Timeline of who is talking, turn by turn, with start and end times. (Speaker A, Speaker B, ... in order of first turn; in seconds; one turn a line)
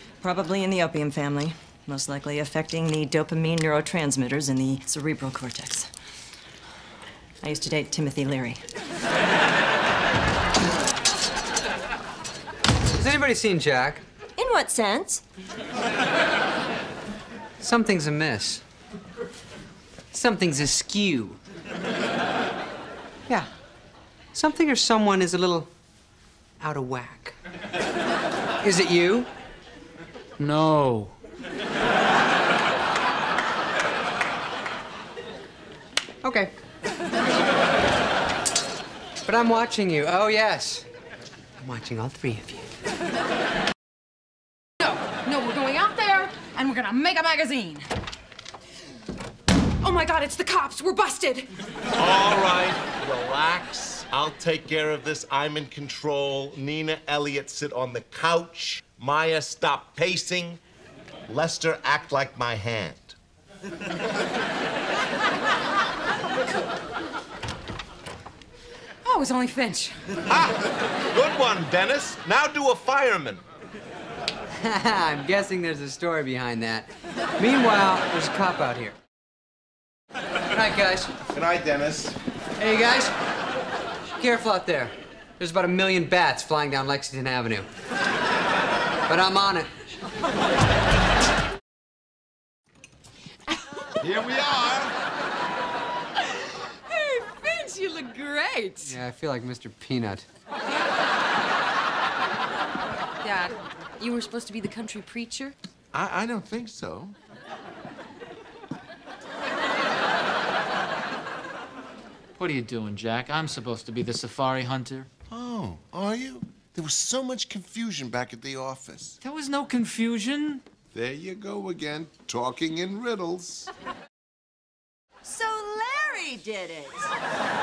Speaker A: 0.2-5.9
Speaker A: 7.4-8.6
Speaker B: 13.0-14.0
Speaker A: 14.4-15.2
Speaker B: 17.6-18.6
Speaker B: 20.1-21.4
Speaker B: 24.3-25.7
Speaker B: 26.6-27.4
Speaker B: 28.6-29.3
Speaker C: 30.4-31.1
Speaker B: 36.2-36.5
Speaker B: 39.2-40.9
Speaker B: 41.6-42.7
Speaker D: 44.8-47.9
Speaker D: 49.8-51.5
Speaker E: 52.0-60.6
Speaker E: 61.3-63.2
Speaker D: 69.0-70.0
Speaker E: 70.3-73.4
Speaker B: 74.6-79.0
Speaker B: 80.5-81.1
Speaker E: 81.3-82.2
Speaker B: 82.6-83.1
Speaker B: 84.1-87.7
Speaker B: 89.1-89.7
Speaker E: 94.0-94.9
Speaker D: 96.3-99.0
Speaker B: 98.8-100.3
Speaker D: 103.2-105.5
Speaker E: 105.9-107.2
Speaker C: 112.4-115.1
Speaker E: 115.3-119.2
Speaker C: 119.2-120.6
Speaker E: 120.9-123.7
Speaker A: 125.2-127.1